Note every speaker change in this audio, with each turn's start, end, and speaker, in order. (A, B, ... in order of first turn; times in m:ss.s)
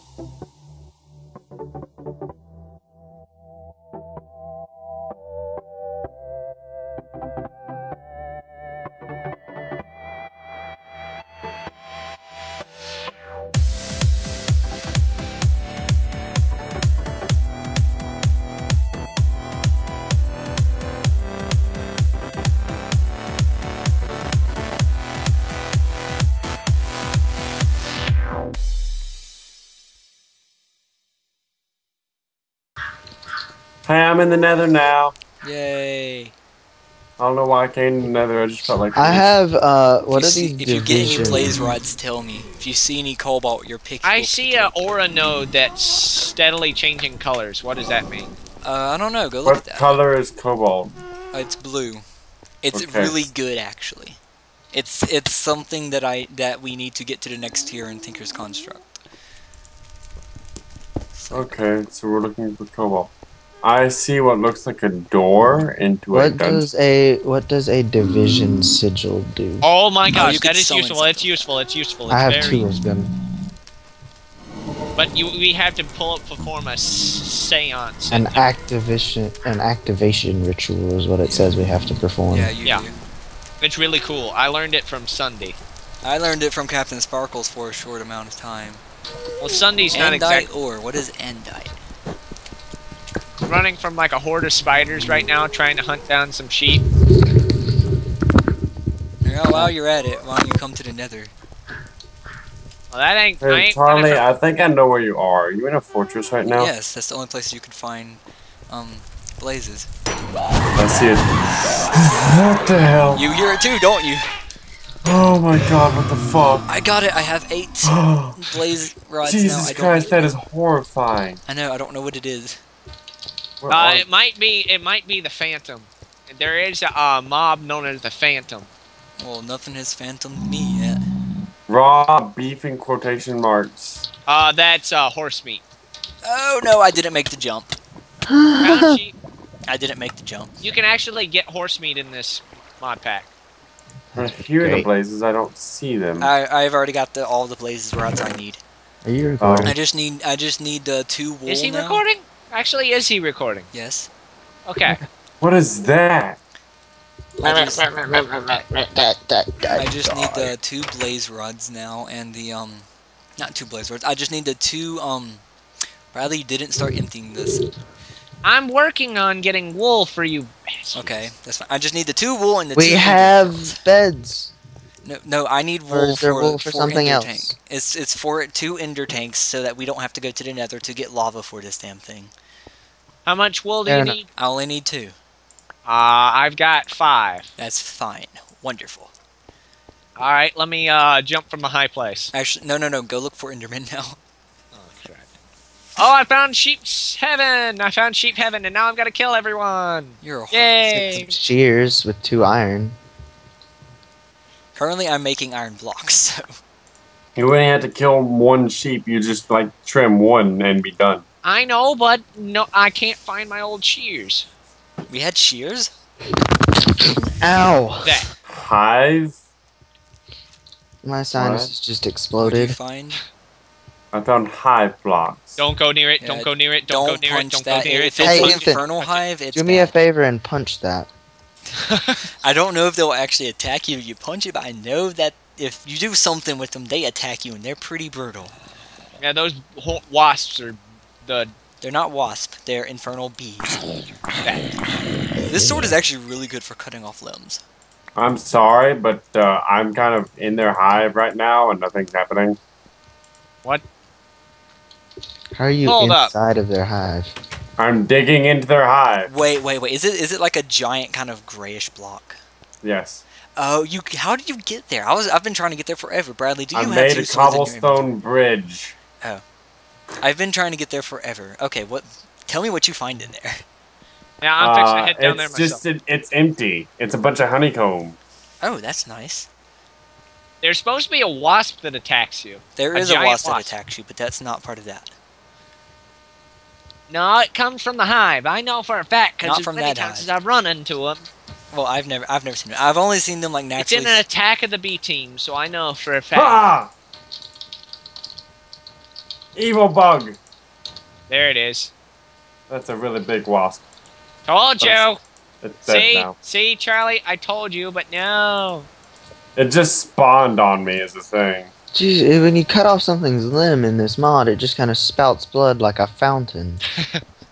0:33.8-0:35.1 A
0:35.4-0:36.3 B
0:37.2-0:39.3 A
0:38.9-0:41.7 C
0:40.1-0:45.0 B
0:44.0-0:48.4 D
0:48.6-0:50.0 B
0:49.4-0:50.9 A
0:51.3-0:52.0 B
0:52.6-0:54.2 B
0:52.7-0:53.3 A
0:54.7-0:59.0 B
1:01.1-1:01.6 B
1:01.3-1:03.1 A
1:03.6-1:06.7 A
1:06.1-1:09.7 C
1:09.6-1:12.7 D
1:10.1-1:11.5 B
1:12.1-1:13.1 C
1:14.9-1:18.5 D
1:18.1-1:22.5 C
1:21.2-1:21.6 B
1:22.3-1:23.0 B
1:23.6-1:25.6 D
1:26.0-1:28.8 B
1:29.4-1:30.5 D
1:29.9-1:31.8 B
1:33.4-1:36.8 D
1:39.2-1:41.3 B
1:42.9-1:44.2 D
1:43.4-1:46.7 A
1:46.5-1:49.9 B
1:50.8-1:51.3 A
1:52.0-1:53.2 A
1:53.1-1:54.3 B
1:55.0-1:56.7 A
1:56.6-2:00.4 B
1:57.8-1:58.7 A
1:59.2-2:01.4 A
2:01.4-2:02.6 B
2:03.6-2:04.0 A
2:03.7-2:08.7 D
2:09.2-2:11.0 B
2:11.7-2:14.0 A
2:14.3-2:15.6 D
2:16.2-2:17.7 B
2:18.3-2:19.0 C
2:18.6-2:19.1 D
2:19.7-2:20.5 B
2:20.6-2:23.3 D
2:24.1-2:24.9 C
2:24.2-2:26.3 A
2:26.2-2:28.6 B
2:29.0-2:29.8 C
2:29.4-2:29.7 A
2:29.6-2:32.0 B
2:31.5-2:33.7 D
2:33.7-2:34.1 B
2:34.6-2:35.0 D
2:35.4-2:36.4 A
2:37.4-2:40.5 C
2:37.4-2:37.9 B
2:39.7-2:45.4 B
2:46.1-2:47.6 B
2:48.4-2:51.3 D
2:50.9-2:53.8 B
2:52.7-2:54.5 C
2:55.0-3:02.3 B
2:55.9-2:57.5 C
3:03.2-3:04.2 D
3:03.8-3:04.2 C
3:04.4-3:05.1 B
3:05.8-3:07.5 D
3:07.6-3:09.1 B
3:10.2-3:12.3 D
3:12.3-3:14.2 B
3:14.7-3:15.3 D
3:16.0-3:21.4 D
3:20.2-3:21.2 B
3:21.2-3:23.0 C
3:24.7-3:26.5 B
3:27.4-3:31.2 A
3:31.4-3:34.5 D
3:35.1-3:35.9 B
3:37.4-3:38.2 C
3:38.0-3:38.3 D
3:38.5-3:39.3 A
3:41.0-3:42.8 C
3:41.3-3:41.7 A
3:42.4-3:43.2 B
3:44.1-3:45.6 A
3:45.6-3:49.2 D
3:46.2-3:49.9 B
3:48.2-3:48.8 C
3:49.5-3:51.1 C
3:51.9-3:52.2 D
3:52.4-3:58.5 B
3:59.2-4:01.5 D
4:01.8-4:03.8 B
4:05.4-4:07.6 B
4:05.5-4:05.9 C
4:08.2-4:12.6 A
4:15.6-4:17.3 C
4:15.8-4:16.3 D
4:17.8-4:19.3 A
4:19.3-4:22.4 B
4:22.8-4:23.2 A
4:23.6-4:28.0 B
4:26.7-4:29.0 A
4:30.2-4:33.6 B
4:34.4-4:35.8 D
4:34.6-4:38.2 A
4:38.6-4:39.5 B
4:40.6-4:43.7 D
4:42.8-4:45.1 B
4:47.1-4:51.3 D
4:49.4-4:50.3 B
4:51.7-4:54.2 B
4:53.8-4:56.6 D
4:56.3-4:56.9 A
4:59.5-5:00.4 A
5:01.3-5:01.9 D
5:02.7-5:03.8 A
5:04.4-5:05.2 D
5:04.8-5:05.1 A
5:05.6-5:06.3 A
5:05.8-5:08.9 D
5:09.6-5:11.7 A
5:11.9-5:16.8 C